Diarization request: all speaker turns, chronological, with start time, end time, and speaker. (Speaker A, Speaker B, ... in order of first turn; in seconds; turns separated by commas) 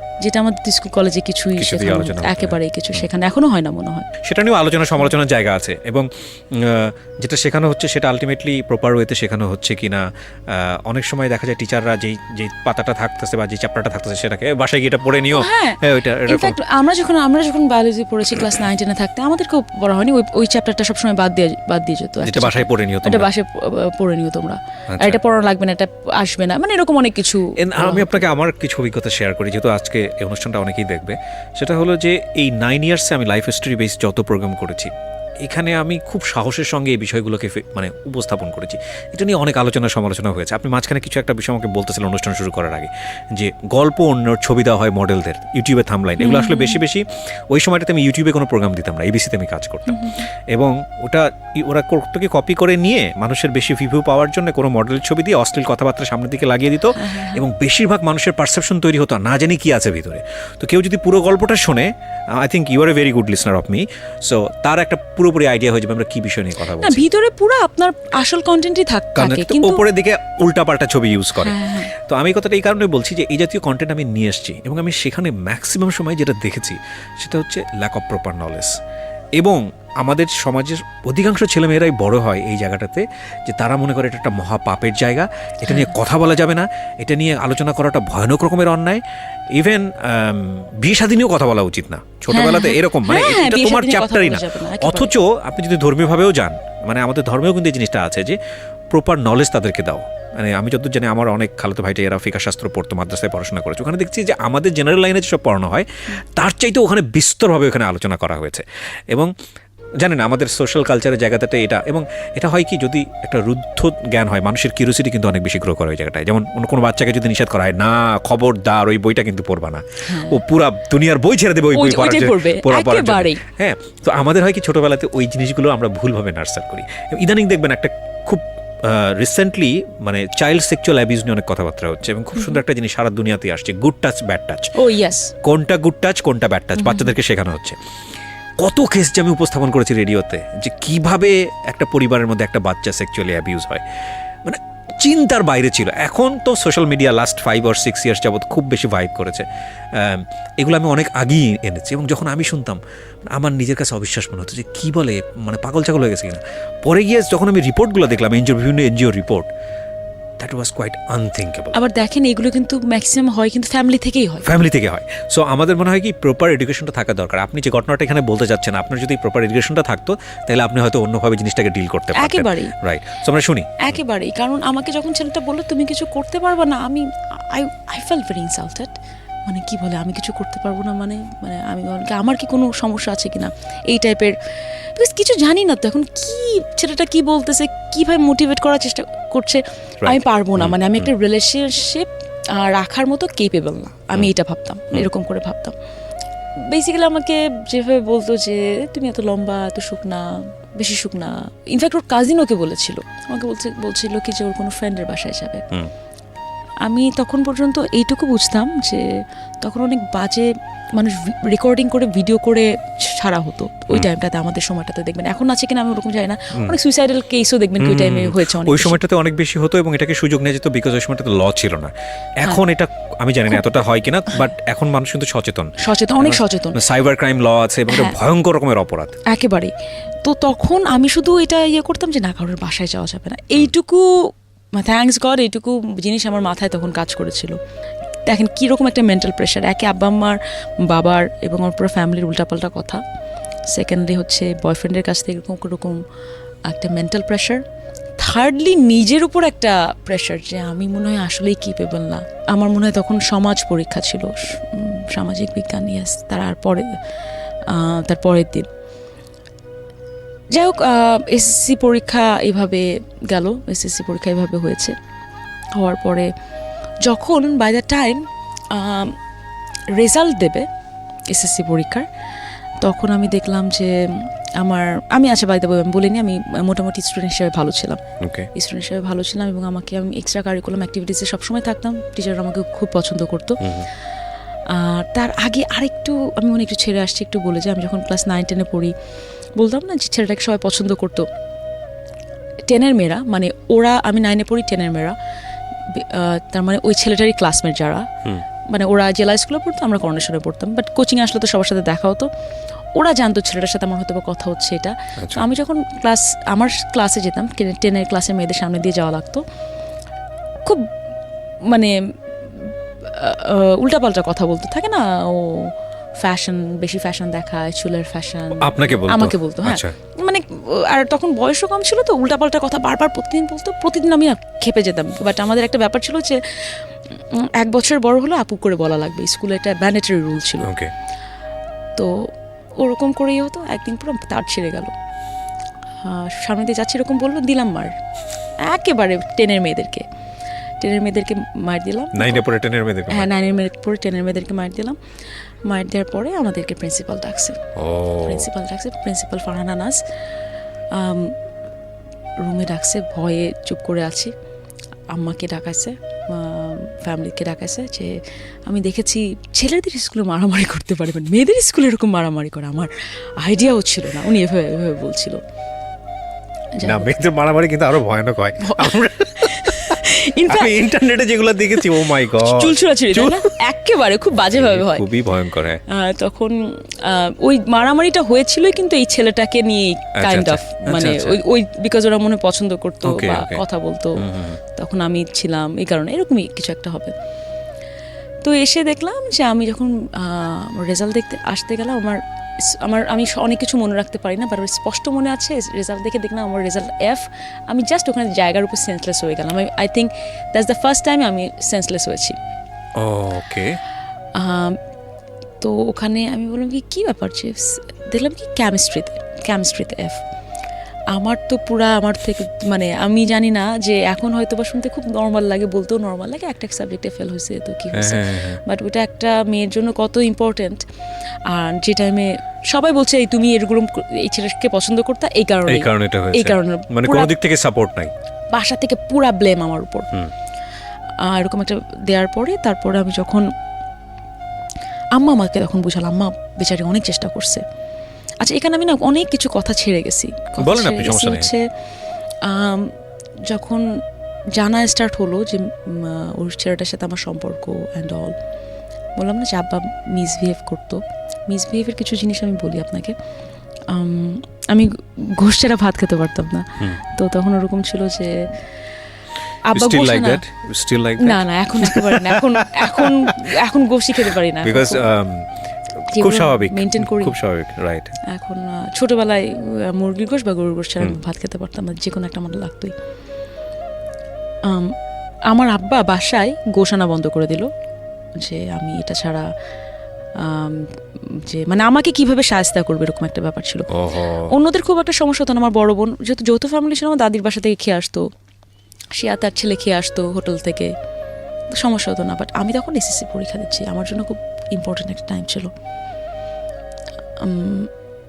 Speaker A: 0.2-4.1, Speaker B: 1.6-3.0, Speaker B: 4.2-16.6, Speaker A: 15.3-28.2, Speaker B: 22.2-23.3, Speaker B: 24.9-25.2, Speaker B: 27.6-67.0, Speaker A: 46.2-46.8, Speaker A: 49.9-50.2, Speaker A: 56.9-57.4, Speaker A: 66.6-69.8, Speaker B: 69.2-78.7, Speaker A: 71.4-71.9, Speaker B: 79.4-89.0, Speaker A: 85.7-85.9, Speaker B: 89.5-98.4, Speaker A: 92.3-95.1, Speaker B: 98.9-109.3, Speaker B: 110.0-134.7, Speaker A: 120.1-120.4, Speaker A: 121.7-123.4, Speaker A: 134.8-135.3, Speaker B: 135.4-137.8, Speaker A: 136.8-137.1, Speaker B: 138.6-143.8, Speaker B: 144.4-152.8, Speaker B: 153.3-159.5, Speaker B: 160.4-161.8, Speaker A: 161.7-164.6, Speaker B: 164.4-173.8, Speaker A: 172.1-172.7, Speaker A: 173.8-195.7, Speaker B: 190.0-191.0, Speaker A: 196.6-205.7, Speaker A: 206.8-219.0, Speaker B: 217.8-229.1, Speaker A: 223.5-224.5, Speaker A: 225.8-226.8, Speaker A: 227.9-228.2, Speaker A: 229.2-229.7, Speaker A: 230.2-237.6, Speaker A: 238.2-243.0, Speaker A: 243.7-246.0, Speaker A: 246.7-247.6, Speaker A: 248.2-257.0, Speaker A: 257.6-258.7, Speaker A: 260.5-264.9, Speaker A: 265.8-266.3, Speaker A: 267.0-269.2, Speaker A: 269.9-270.7, Speaker A: 271.3-272.1, Speaker A: 272.8-283.8, Speaker B: 278.2-278.5, Speaker B: 283.6-283.9, Speaker A: 284.7-288.9, Speaker A: 289.6-291.3, Speaker A: 292.7-295.1, Speaker A: 295.9-298.1, Speaker A: 298.7-302.3, Speaker A: 302.9-309.4, Speaker B: 305.2-305.4, Speaker A: 310.6-310.9, Speaker A: 311.6-330.7, Speaker B: 318.6-319.9, Speaker B: 330.6-330.9, Speaker A: 331.9-332.3, Speaker A: 332.8-334.9, Speaker A: 336.0-337.9, Speaker A: 338.6-340.1, Speaker A: 340.8-342.5, Speaker B: 342.1-343.3, Speaker A: 343.1-345.0, Speaker A: 345.6-347.6, Speaker B: 347.8-348.5, Speaker A: 348.2-350.0, Speaker A: 350.9-351.4, Speaker A: 352.4-354.3, Speaker A: 355.1-365.4, Speaker A: 366.8-367.1, Speaker B: 366.8-373.5, Speaker A: 368.6-370.9, Speaker A: 371.8-375.1, Speaker B: 374.5-375.8, Speaker A: 375.9-387.1, Speaker B: 380.1-381.4, Speaker B: 383.0-383.6, Speaker B: 384.2-384.6, Speaker A: 388.4-402.4, Speaker B: 403.0-403.8, Speaker A: 404.3-404.8, Speaker A: 405.6-410.2, Speaker A: 411.1-420.9, Speaker B: 417.9-418.6, Speaker A: 421.5-427.3, Speaker B: 425.6-428.1, Speaker A: 428.5-430.1, Speaker A: 431.2-433.5, Speaker A: 435.1-437.6, Speaker A: 438.4-441.6, Speaker B: 440.6-441.5, Speaker A: 442.4-443.9, Speaker A: 444.5-448.4, Speaker A: 449.2-453.1, Speaker A: 453.9-458.4, Speaker A: 459.6-460.4, Speaker B: 459.7-463.4, Speaker A: 461.2-465.1, Speaker B: 464.2-465.5, Speaker B: 466.0-468.1, Speaker A: 466.1-467.4, Speaker A: 468.3-472.9, Speaker A: 474.6-475.0, Speaker A: 475.5-477.7, Speaker A: 478.4-479.5, Speaker A: 480.4-488.3, Speaker B: 483.9-484.5, Speaker A: 489.1-490.9, Speaker A: 491.7-495.7, Speaker A: 497.4-497.9